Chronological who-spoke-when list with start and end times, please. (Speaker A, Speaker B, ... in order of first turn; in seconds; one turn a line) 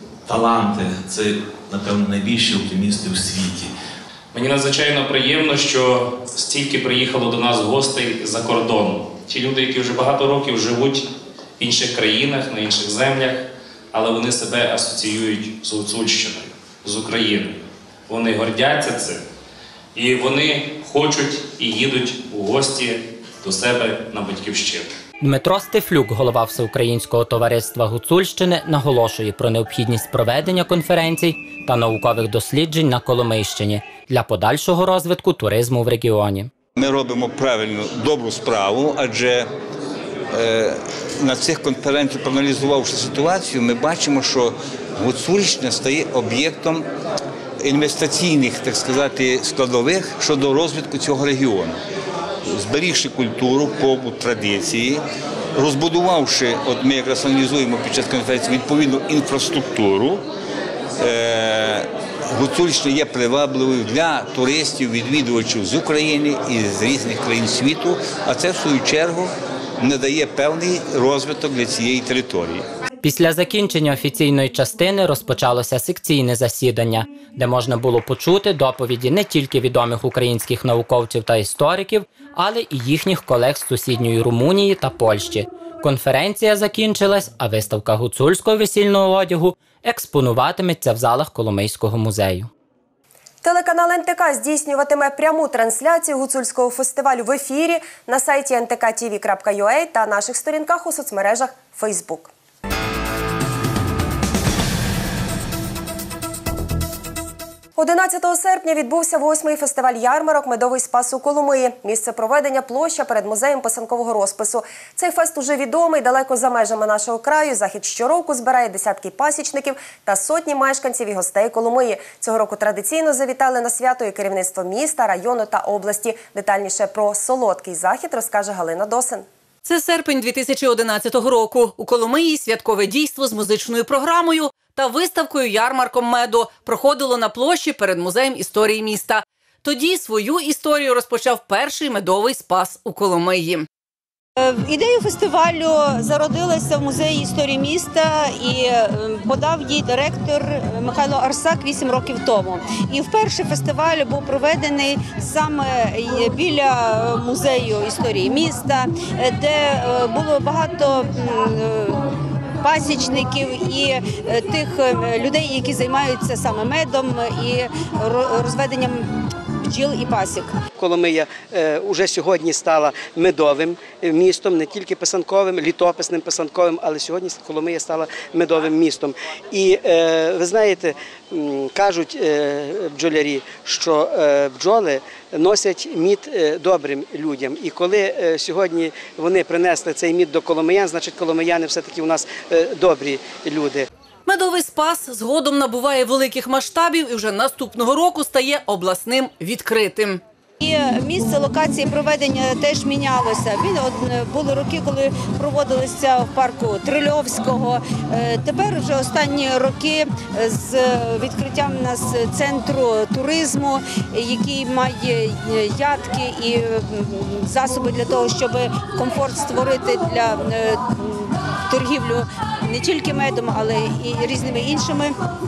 Speaker A: 0.2-3.7
Speaker B: 4.3-11.1
Speaker B: 11.6-17.6
Speaker B: 18.1-19.2
Speaker B: 19.9-24.9
Speaker C: 25.2-36.5
Speaker D: 36.8-39.5
Speaker D: 40.3-46.9
Speaker D: 47.6-51.8
Speaker D: 52.5-55.0
Speaker D: 55.5-60.2
Speaker D: 61.0-72.6
Speaker C: 73.0-92.5
Speaker E: 93.4-102.3
Speaker E: 107.8-129.2
Speaker F: 129.6-143.7
Speaker G: 144.4-162.1
Speaker G: 162.6-169.1
Speaker G: 169.6-170.5
Speaker H: 170.8-193.9
Speaker F: 194.2-200.2
Speaker G: 200.6-225.1